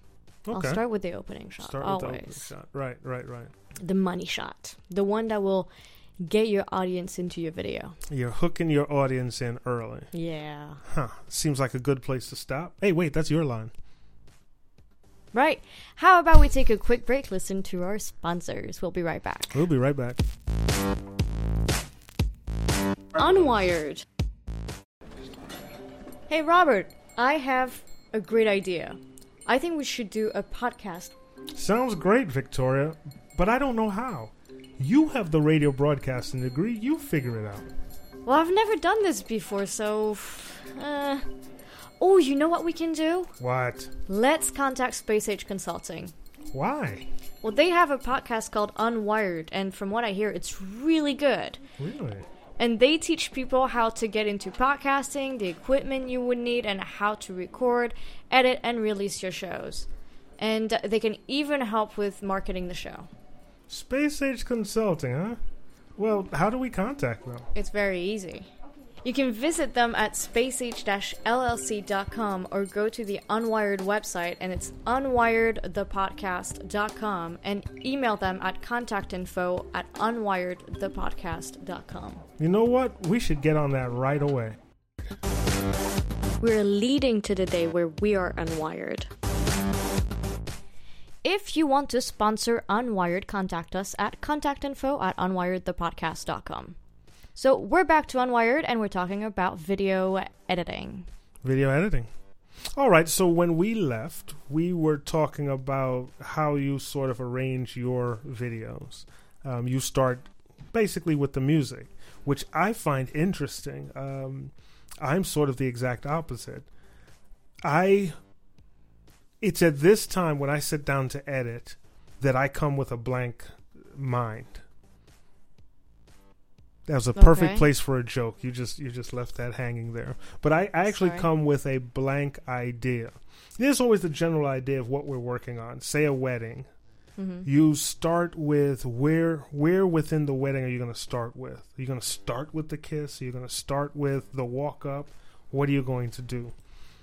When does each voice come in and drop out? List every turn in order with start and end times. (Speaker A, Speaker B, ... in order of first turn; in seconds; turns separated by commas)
Speaker A: 0.5-0.8, Speaker B: 0.5-2.5, Speaker A: 1.6-3.5, Speaker B: 3.8-8.0, Speaker A: 8.1-10.1, Speaker B: 10.1-10.8, Speaker A: 10.8-13.7, Speaker B: 15.3-19.6, Speaker A: 19.5-20.2, Speaker B: 23.1-24.0, Speaker B: 26.3-31.1, Speaker A: 31.5-37.7, Speaker B: 38.2-41.3, Speaker B: 42.0-43.3, Speaker A: 43.4-43.9, Speaker B: 44.1-46.1, Speaker A: 46.5-47.1, Speaker B: 47.4-51.6, Speaker A: 51.8-52.3, Speaker B: 52.6-63.1, Speaker A: 63.7-65.4, Speaker A: 66.0-67.5, Speaker B: 67.5-68.5, Speaker B: 69.0-82.2, Speaker A: 82.4-84.6, Speaker B: 86.4-89.1, Speaker B: 91.2-96.8, Speaker B: 97.3-101.1, Speaker A: 101.4-102.1, Speaker A: 102.7-116.7, Speaker A: 117.6-118.2, Speaker A: 119.4-124.6, Speaker A: 126.9-136.7, Speaker B: 127.1-127.7, Speaker B: 130.9-131.3, Speaker B: 137.2-137.5, Speaker A: 137.4-146.5